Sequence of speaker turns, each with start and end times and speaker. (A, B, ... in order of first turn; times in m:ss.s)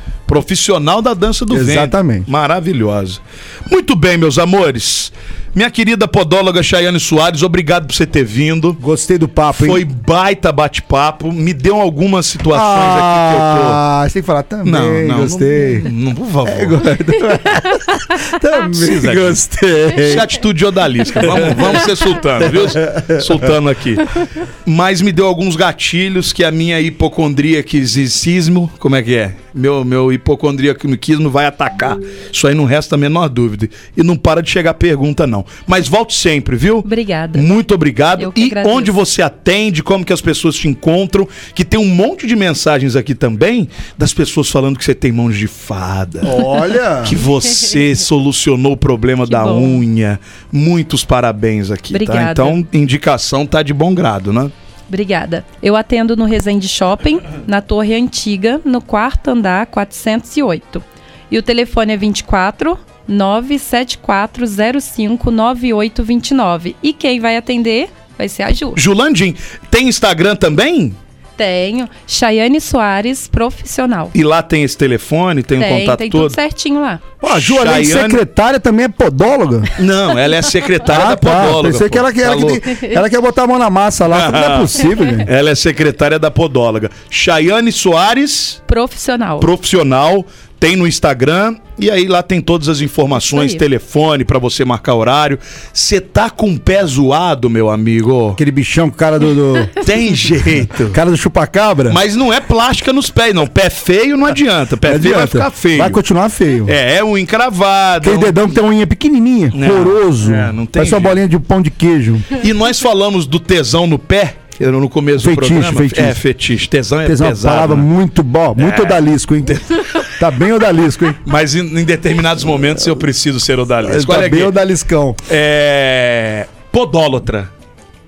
0:00.3-0:08.8 A
0:01.5-0:02.3 B
0:08.8-0:09.8 B
0:09.5-0:13.8 A
0:12.5-0:15.9 B
0:14.6-0:16.8 A
0:16.4-0:20.3 B
0:18.7-0:19.4 A
0:20.0-0:46.5 A
0:21.2-0:23.5 B
0:36.8-0:37.5 C
0:38.2-0:38.9 C
0:46.2-0:47.2 B
0:47.0-0:54.5 A
0:49.2-0:49.8 C
0:51.9-0:52.6 C
0:54.9-1:08.8 C
1:08.8-1:11.0 A
1:11.4-1:14.1 C
1:14.1-1:16.4 A
1:15.6-1:17.0 C
1:17.2-1:18.2 A
1:17.2-1:19.7 B
1:19.8-1:22.7 A
1:20.8-1:25.3 B
1:24.1-1:28.6 A
1:28.7-1:29.5 C
1:29.4-1:38.4 A
1:33.2-1:33.6 C
1:38.4-1:39.7 B
1:39.8-1:41.0 A
1:40.7-1:42.0 B
1:41.9-1:46.0 A
1:44.8-1:46.7 B
1:46.6-1:48.4 A
1:48.0-1:52.3 B
1:49.5-1:51.2 A
1:52.3-1:57.9 A
1:55.2-1:56.2 B
1:57.0-1:59.6 B
1:58.6-2:00.1 A
2:00.2-2:01.2 B
2:01.2-2:04.5 A
2:03.8-2:05.2 B
2:05.3-2:07.5 A